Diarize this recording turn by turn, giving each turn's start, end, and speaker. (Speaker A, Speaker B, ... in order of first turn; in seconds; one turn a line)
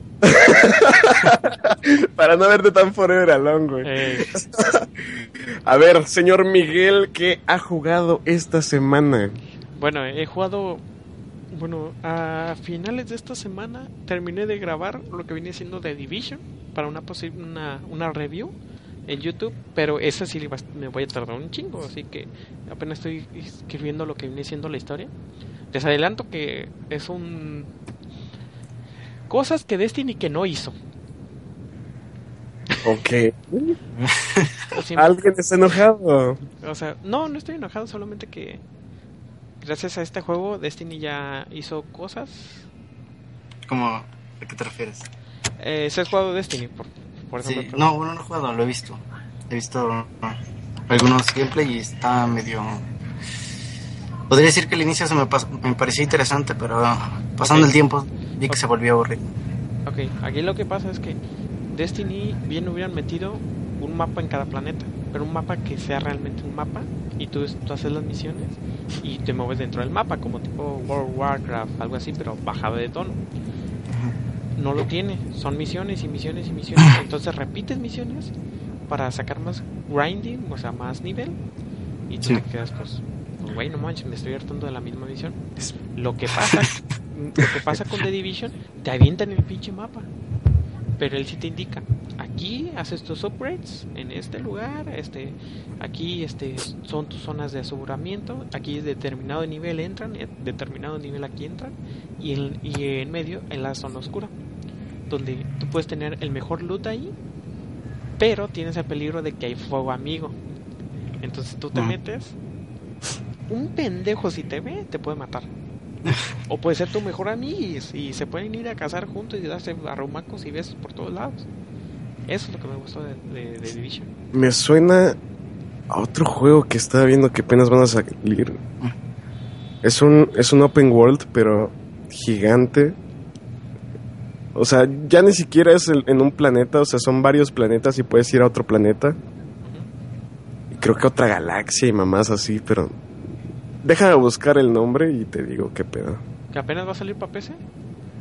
Speaker A: 0.2-9.4
Speaker B: 3.8-4.4
Speaker B: 9.8-10.8
Speaker B: 11.5-18.5
Speaker B: 19.1-25.1
Speaker B: 25.7-27.7
Speaker B: 29.3-30.8
Speaker A: 32.8-33.8
Speaker C: 34.0-34.5
Speaker B: 34.7-35.2
Speaker A: 35.0-36.4
Speaker B: 36.6-38.6
Speaker B: 39.6-42.7
Speaker C: 43.7-45.1
Speaker B: 45.6-47.9
Speaker C: 47.4-52.9
Speaker C: 54.3-59.3
Speaker B: 57.4-57.7
Speaker B: 59.9-61.2
Speaker B: 61.7-73.2
Speaker B: 74.6-78.3
Speaker B: 78.9-81.4
Speaker B: 82.1-90.1
Speaker C: 86.5-86.8
Speaker B: 91.0-104.3
Speaker B: 105.1-107.2
Speaker B: 108.2-110.4
Speaker B: 111.2-112.4
Speaker B: 113.5-115.5
Speaker B: 116.5-121.5
Speaker B: 122.3-124.1
Speaker A: 124.3-125.2
Speaker A: 125.9-128.6
Speaker A: 129.8-133.0
Speaker A: 134.6-139.2
Speaker A: 140.7-142.9
Speaker A: 143.8-146.2
Speaker B: 146.5-147.6